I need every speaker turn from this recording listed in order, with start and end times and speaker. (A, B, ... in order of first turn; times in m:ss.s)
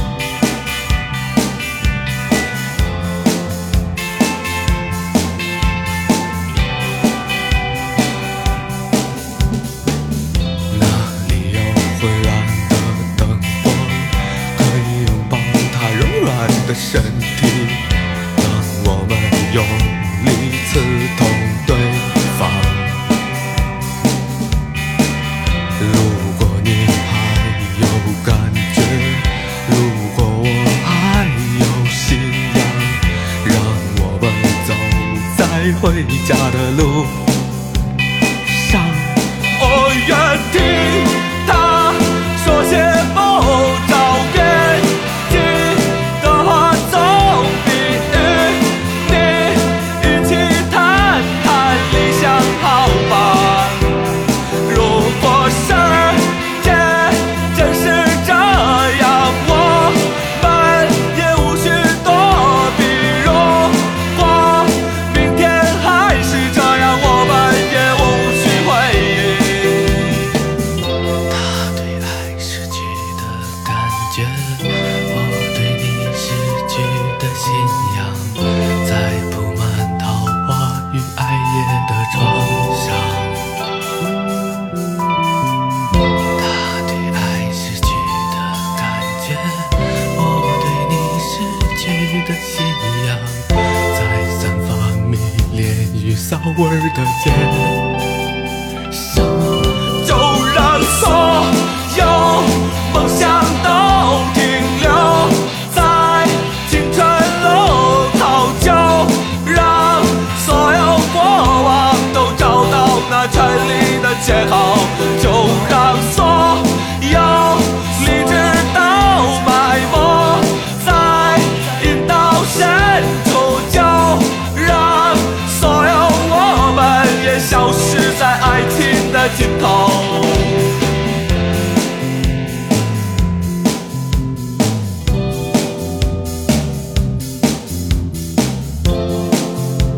0:10.7-0:23.1 A
0:25.8-0:37.4 A
0:38.4-0:54.0 A
0:54.7-1:10.1 A
1:11.3-1:23.5 A
1:26.4-1:37.8 A
1:38.9-2:10.6 A